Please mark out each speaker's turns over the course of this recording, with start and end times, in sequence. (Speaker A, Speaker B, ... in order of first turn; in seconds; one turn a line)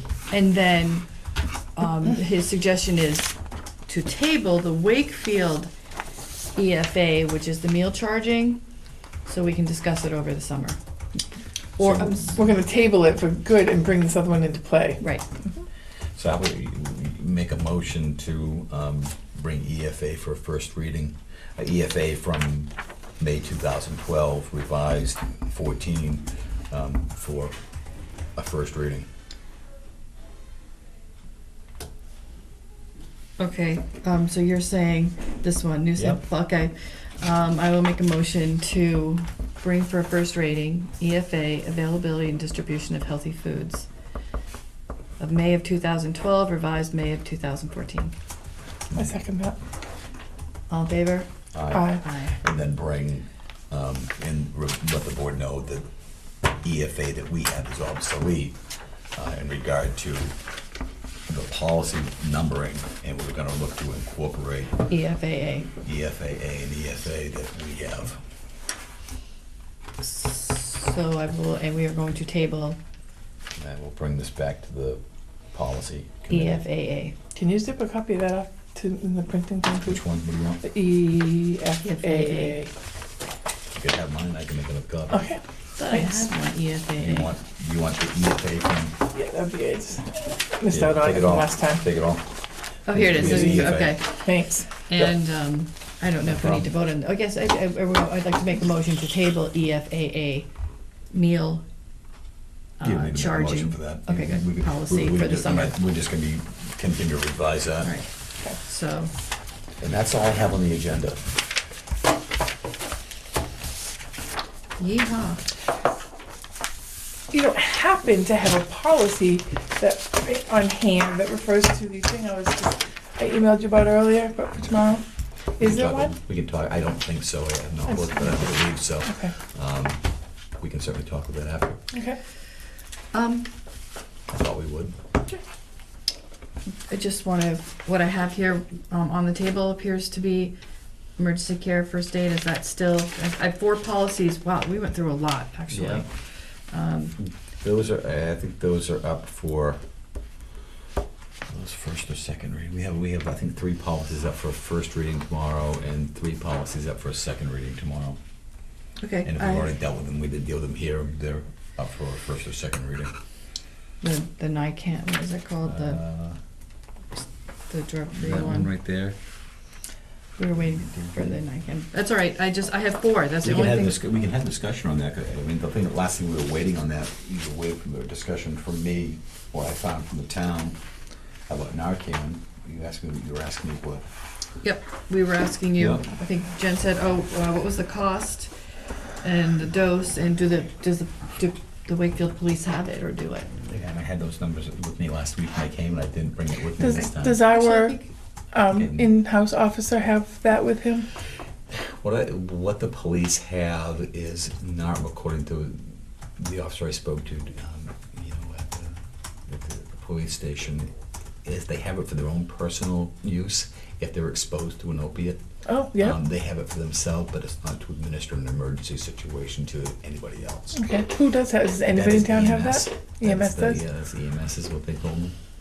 Speaker A: 0.3-1.1
Speaker A: 1.8-3.4
Speaker A: 3.9-5.7
Speaker A: 6.5-8.6
Speaker A: 9.2-10.8
Speaker A: 11.8-12.4
Speaker B: 11.8-12.1
Speaker C: 12.0-15.0
Speaker A: 15.0-15.3
Speaker B: 16.1-27.6
Speaker B: 28.4-29.1
Speaker A: 33.4-43.9
Speaker B: 36.0-36.2
Speaker A: 45.2-48.1
Speaker C: 49.0-49.6
Speaker A: 50.7-51.3
Speaker B: 51.5-55.9
Speaker C: 51.7-52.0
Speaker A: 52.0-52.4
Speaker B: 56.5-58.6
Speaker B: 59.2-60.4
Speaker B: 61.3-64.8
Speaker A: 64.9-65.7
Speaker B: 65.8-68.2
Speaker A: 70.0-72.8
Speaker B: 73.6-75.0
Speaker B: 75.5-76.6
Speaker A: 76.3-77.2
Speaker C: 77.3-80.0
Speaker B: 79.9-80.6
Speaker C: 80.6-82.7
Speaker A: 81.8-82.6
Speaker B: 83.7-85.3
Speaker C: 85.1-86.3
Speaker A: 85.8-87.3
Speaker B: 86.9-89.0
Speaker C: 89.1-91.8
Speaker B: 90.7-92.2
Speaker A: 92.9-100.5
Speaker B: 92.9-94.0
Speaker C: 93.2-94.7
Speaker B: 96.3-96.7
Speaker A: 101.1-101.6
Speaker A: 102.8-105.8
Speaker B: 102.8-108.0
Speaker A: 107.8-109.1
Speaker B: 109.8-111.4
Speaker A: 114.8-115.4
Speaker C: 117.3-125.0
Speaker B: 125.6-130.0
Speaker C: 125.6-126.1
Speaker C: 127.9-129.3
Speaker B: 130.6-131.8
Speaker C: 131.9-132.2
Speaker A: 133.1-133.5
Speaker B: 134.3-135.0
Speaker A: 136.9-140.6
Speaker A: 141.2-147.2
Speaker B: 145.7-146.1
Speaker B: 147.2-149.8
Speaker B: 151.5-158.2
Speaker A: 159.0-159.7
Speaker B: 159.2-163.2
Speaker A: 164.0-166.0
Speaker B: 165.6-166.4
Speaker A: 167.7-168.7
Speaker B: 168.2-169.2
Speaker A: 170.4-174.0
Speaker B: 170.5-171.4
Speaker B: 173.4-180.8
Speaker B: 181.5-184.1
Speaker A: 184.6-188.5
Speaker B: 185.8-186.1
Speaker A: 189.2-193.5
Speaker B: 193.6-197.4
Speaker C: 196.8-198.0
Speaker A: 197.5-198.1
Speaker C: 198.5-201.1
Speaker B: 198.7-199.1
Speaker B: 201.7-210.9
Speaker B: 211.4-215.4
Speaker C: 215.7-216.2
Speaker B: 216.0-220.8
Speaker C: 220.7-223.8
Speaker B: 221.9-225.4